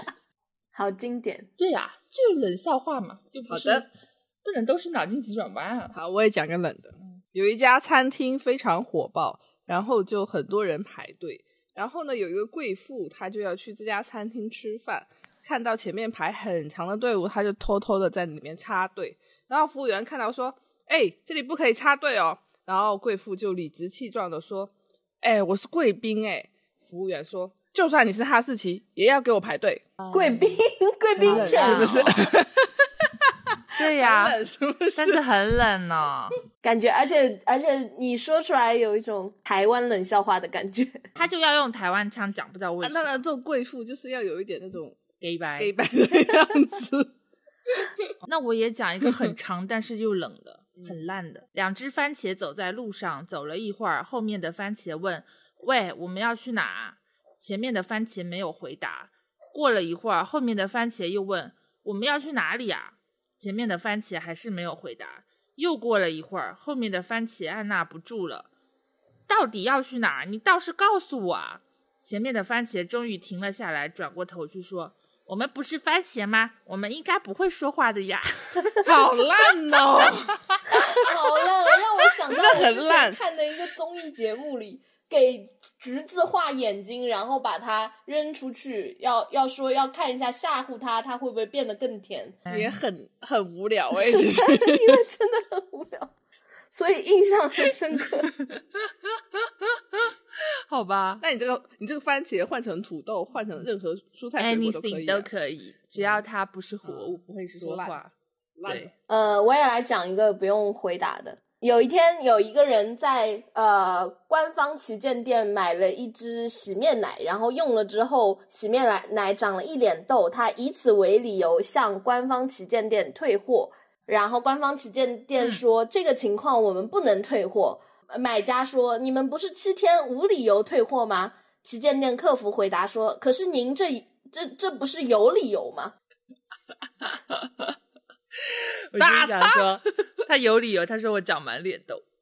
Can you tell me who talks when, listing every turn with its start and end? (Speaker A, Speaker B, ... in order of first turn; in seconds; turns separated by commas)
Speaker A: 0.7-1.5, Speaker B: 1.6-3.9, Speaker C: 3.5-3.8, Speaker B: 4.4-5.9, Speaker C: 5.9-29.8, Speaker B: 30.0-30.6, Speaker A: 30.1-32.3, Speaker C: 31.2-35.2, Speaker B: 31.2-32.3, Speaker B: 33.8-34.4, Speaker B: 34.9-36.4, Speaker A: 36.6-41.1, Speaker B: 41.1-43.2, Speaker C: 42.8-45.0, Speaker B: 45.2-45.7, Speaker C: 45.6-47.1, Speaker C: 47.7-48.1, Speaker B: 48.2-68.5, Speaker B: 69.3-78.8, Speaker C: 78.8-81.1, Speaker A: 80.9-92.4, Speaker C: 82.2-83.2, Speaker B: 92.5-92.8, Speaker C: 92.5-95.0, Speaker A: 93.9-96.1, Speaker A: 96.7-98.3, Speaker B: 98.4-100.1, Speaker B: 100.7-101.2, Speaker C: 101.2-105.3, Speaker B: 104.4-108.1, Speaker C: 106.8-108.0, Speaker C: 108.5-108.9, Speaker A: 109.1-135.9, Speaker B: 138.4-142.0, Speaker C: 139.0-139.8